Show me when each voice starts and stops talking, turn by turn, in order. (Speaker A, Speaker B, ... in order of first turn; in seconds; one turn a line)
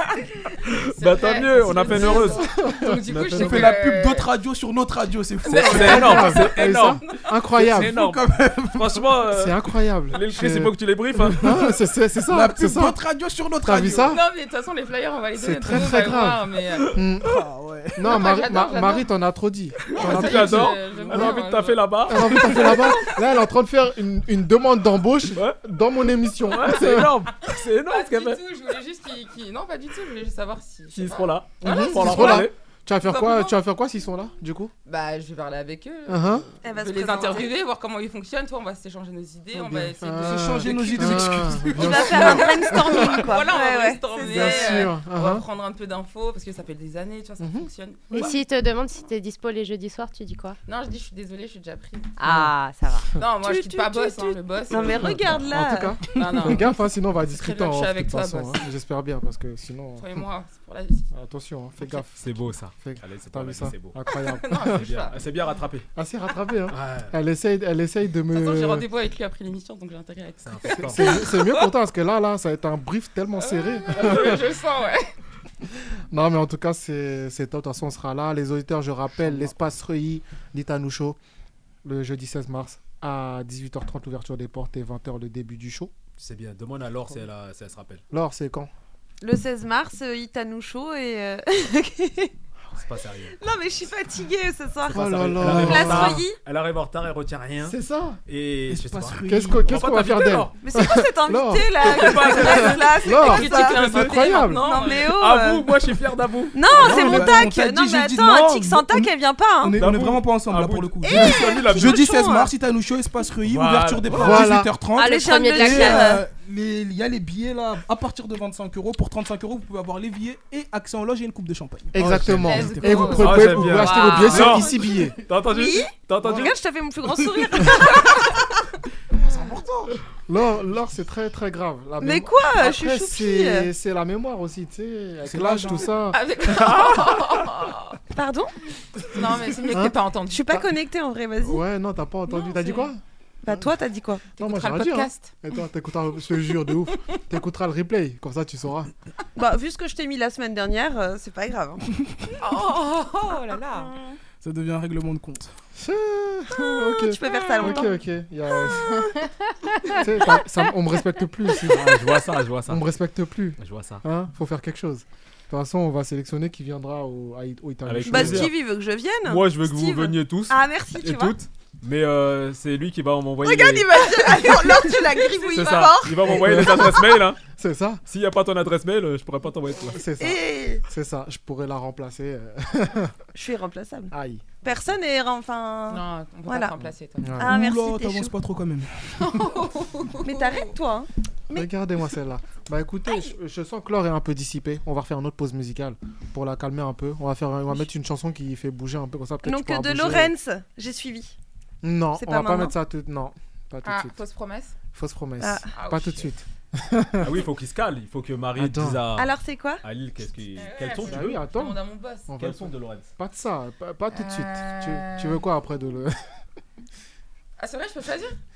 Speaker A: 0.6-2.5
Speaker B: 0.9-4.3
Speaker C: 2.2-3.7
Speaker A: 3.1-3.4
Speaker D: 3.3-6.5
Speaker A: 5.4-7.0
Speaker B: 5.5-5.9
Speaker C: 5.6-8.0
Speaker D: 7.6-9.1
Speaker A: 7.6-11.6
Speaker C: 9.3-13.0
Speaker D: 12.3-14.2
Speaker C: 13.6-14.2
Speaker B: 14.0-17.0
Speaker C: 15.3-17.4
Speaker D: 17.2-18.1
Speaker C: 17.9-20.7
Speaker B: 18.0-19.1
Speaker A: 19.9-23.1
Speaker B: 20.0-22.9
Speaker C: 22.1-27.2
Speaker A: 25.4-25.6
Speaker A: 26.4-28.4
Speaker B: 27.8-33.5
Speaker A: 30.9-32.5
Speaker C: 31.6-34.7
Speaker B: 34.9-41.1
Speaker C: 36.1-36.5
Speaker E: 36.6-37.5
Speaker C: 39.5-43.4
Speaker D: 40.2-42.3
Speaker E: 41.7-44.9
Speaker B: 41.9-49.0
Speaker C: 44.3-45.5
Speaker C: 47.4-48.3
Speaker F: 48.1-50.6
Speaker B: 50.7-52.1
Speaker C: 52.2-52.5
Speaker E: 52.2-56.0
Speaker F: 52.2-53.0
Speaker B: 53.2-55.3
Speaker C: 55.5-60.2
Speaker B: 56.1-58.7
Speaker B: 60.0-61.1
Speaker C: 61.1-64.8
Speaker A: 62.2-64.0
Speaker B: 64.1-65.2
Speaker A: 64.7-65.9
Speaker C: 66.0-68.8
Speaker A: 66.7-67.1
Speaker B: 68.3-71.7
Speaker A: 70.4-71.2
Speaker C: 70.8-74.4
Speaker B: 73.4-75.1
Speaker A: 74.0-74.3
Speaker C: 76.1-81.2
Speaker C: 81.8-85.9
Speaker A: 86.2-88.0
Speaker C: 88.1-88.7
Speaker E: 89.2-92.3
Speaker A: 92.7-93.4
Speaker E: 93.4-96.4
Speaker C: 94.9-96.3
Speaker A: 94.9-100.5
Speaker D: 95.4-96.0
Speaker C: 97.6-98.2
Speaker D: 98.7-99.8
Speaker C: 99.3-104.7
Speaker E: 100.6-105.7
Speaker A: 101.8-102.9
Speaker B: 102.9-105.2
Speaker A: 103.7-104.1
Speaker A: 104.9-106.6
Speaker E: 106.5-109.8
Speaker D: 106.6-123.6
Speaker A: 109.8-112.0
Speaker E: 111.0-112.5
Speaker A: 113.4-114.5
Speaker C: 114.1-114.7
Speaker E: 115.0-116.2
Speaker F: 115.2-116.1
Speaker C: 121.9-125.2
Speaker B: 122.3-124.3
Speaker A: 123.1-126.5
Speaker E: 123.8-124.9
Speaker E: 125.5-128.6
Speaker D: 126.2-126.5
Speaker D: 127.2-127.7
Speaker D: 129.2-130.0
Speaker C: 130.3-137.4
Speaker E: 132.0-133.7
Speaker D: 135.2-136.0
Speaker B: 136.1-138.0
Speaker E: 138.1-138.5
Speaker B: 139.1-140.6
Speaker C: 139.7-139.9
Speaker E: 140.3-141.6
Speaker C: 141.4-143.0
Speaker E: 142.3-142.9
Speaker E: 143.4-144.3
Speaker B: 144.4-145.4
Speaker C: 144.4-148.9
Speaker E: 149.4-151.9
Speaker B: 152.4-153.9
Speaker D: 154.4-155.5
Speaker C: 155.8-159.0
Speaker E: 156.5-158.0
Speaker E: 158.7-159.1
Speaker E: 159.8-160.4
Speaker C: 159.9-161.9
Speaker A: 161.7-162.9
Speaker C: 162.7-168.5
Speaker A: 163.6-164.0
Speaker A: 167.8-168.6
Speaker E: 168.1-171.4
Speaker A: 169.2-173.9
Speaker E: 173.4-176.3
Speaker A: 175.5-177.4
Speaker C: 176.2-178.0
Speaker A: 178.1-180.0
Speaker C: 179.9-183.2
Speaker E: 180.2-180.8
Speaker E: 183.3-188.4
Speaker C: 184.1-184.5
Speaker B: 185.9-187.4
Speaker C: 187.2-187.6
Speaker D: 187.4-189.3
Speaker B: 189.2-190.8
Speaker E: 190.2-191.7
Speaker C: 191.5-200.3
Speaker E: 199.4-201.3
Speaker C: 201.8-204.2
Speaker E: 202.2-202.7
Speaker B: 203.8-204.7
Speaker C: 204.9-207.3
Speaker E: 205.4-205.7
Speaker B: 205.7-206.3
Speaker A: 207.2-211.4
Speaker C: 208.6-209.0
Speaker E: 209.2-209.8
Speaker B: 210.6-212.3
Speaker C: 211.0-216.2
Speaker A: 212.4-213.1
Speaker B: 214.1-215.4
Speaker B: 217.6-218.4